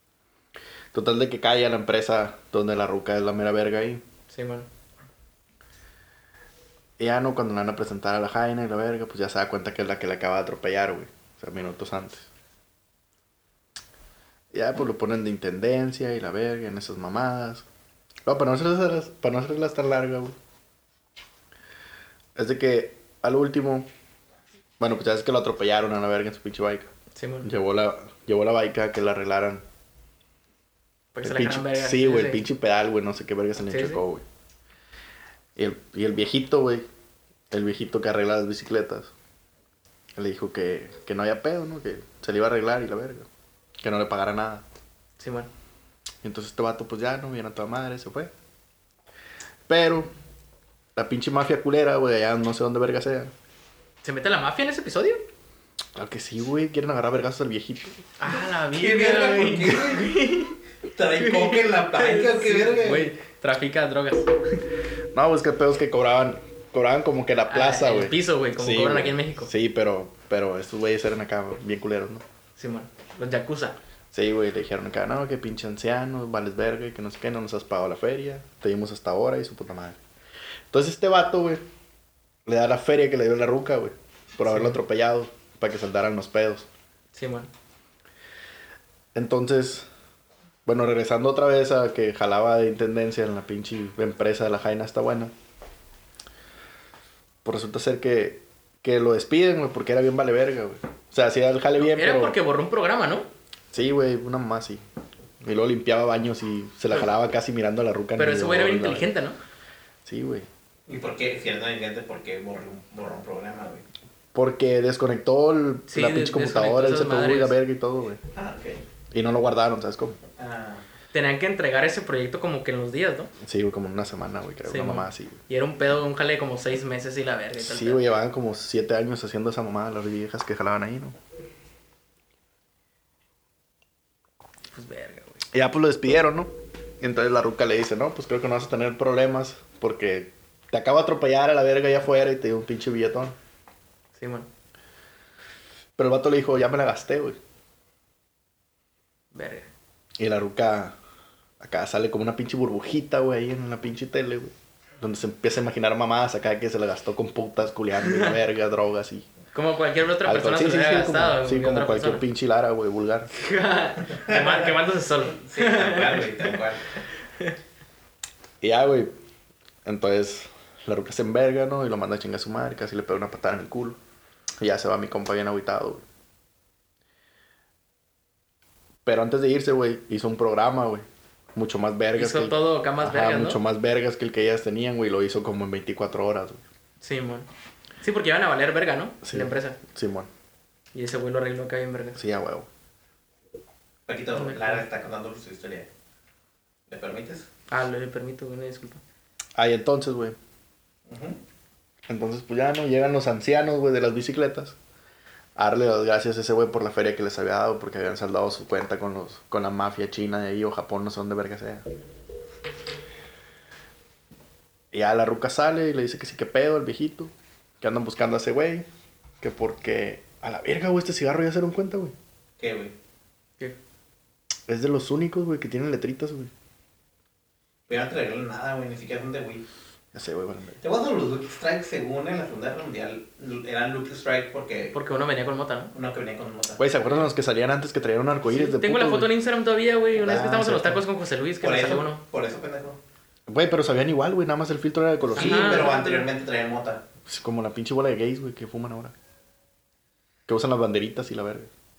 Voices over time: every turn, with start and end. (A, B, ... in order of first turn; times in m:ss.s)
0:00.9-0:04.0 A
0:04.3-0:04.7 B
0:07.0-0:12.3 A
0:14.5-0:17.7 A
0:18.3-0:20.4 A
0:22.4-0:23.9 A
0:24.8-0:26.9 A
0:27.2-0:27.5 B
0:27.4-0:29.6 A
0:31.2-0:32.4 B
0:31.2-0:34.2 A
0:33.7-0:34.0 B
0:35.6-0:36.9 A
0:37.5-0:39.1 A
0:40.2-0:43.3 A
0:43.8-0:44.6 A
0:45.2-0:45.5 B
0:46.2-0:48.3 A
0:49.7-0:50.1 A
0:51.0-0:53.3 A
0:54.0-0:55.2 B
0:56.0-0:58.1 A
0:58.2-1:00.6 B
0:58.7-1:00.2 C
1:00.9-1:03.1 C
1:01.2-1:04.3 B
1:05.1-1:12.2 A
1:07.5-1:09.5 B
1:12.6-1:13.8 B
1:14.1-1:20.0 A
1:20.7-1:21.6 A
1:22.5-1:26.7 A
1:24.5-1:24.8 B
1:27.1-1:27.5 B
1:29.2-1:29.9 A
1:30.7-1:35.3 A
1:37.4-1:42.4 A
1:41.8-1:43.3 B
1:43.7-1:44.8 A
1:45.4-1:49.1 A
1:48.2-1:49.4 B
1:50.0-1:50.5 A
1:50.9-1:53.8 C
1:54.4-1:58.2 A
1:55.9-1:57.6 B
1:58.3-1:58.8 C
1:59.1-2:00.2 A
2:00.4-2:00.8 C
2:01.1-2:03.3 B
2:03.4-2:05.4 A
2:04.7-2:08.2 B
2:07.6-2:11.2 A
2:14.7-2:15.4 B
2:15.5-2:23.4 A
2:24.2-2:24.5 B
2:26.0-2:27.4 A
2:29.3-2:29.7 B
2:30.2-2:31.0 A
2:31.6-2:39.3 A
2:38.1-2:38.3 B
2:39.5-2:42.2 B
2:40.2-2:43.3 A
2:43.3-2:46.6 B
2:44.3-2:44.6 C
2:45.4-2:46.8 C
2:48.6-2:49.1 A
2:49.8-2:54.0 A
2:54.6-2:56.0 A
2:59.0-3:01.0 A
3:01.6-3:06.6 A
3:02.2-3:03.6 B
3:07.0-3:07.5 B
3:08.0-3:09.8 B
3:09.2-3:10.3 A
3:10.9-3:12.2 B
3:12.2-3:12.7 A
3:14.1-3:15.9 C
3:14.4-3:14.8 B
3:16.9-3:17.5 C
3:17.7-3:19.0 B
3:19.6-3:20.4 A
3:21.1-3:21.4 C
3:22.1-3:24.8 A
3:25.6-3:31.8 A
3:34.9-3:38.9 A
3:39.4-3:42.1 A
3:42.6-3:42.9 C
3:44.7-3:46.5 A
3:47.9-3:49.6 C
3:50.1-3:50.8 A
3:50.8-3:55.0 C
3:54.9-3:55.9 B
3:55.9-3:56.8 C
3:56.8-3:59.3 A
3:58.5-4:02.2 B
4:00.2-4:01.0 A
4:01.6-4:03.0 C
4:03.5-4:05.9 A
4:05.4-4:06.3 B
4:05.4-4:07.0 C
4:07.3-4:09.2 A
4:10.5-4:11.7 A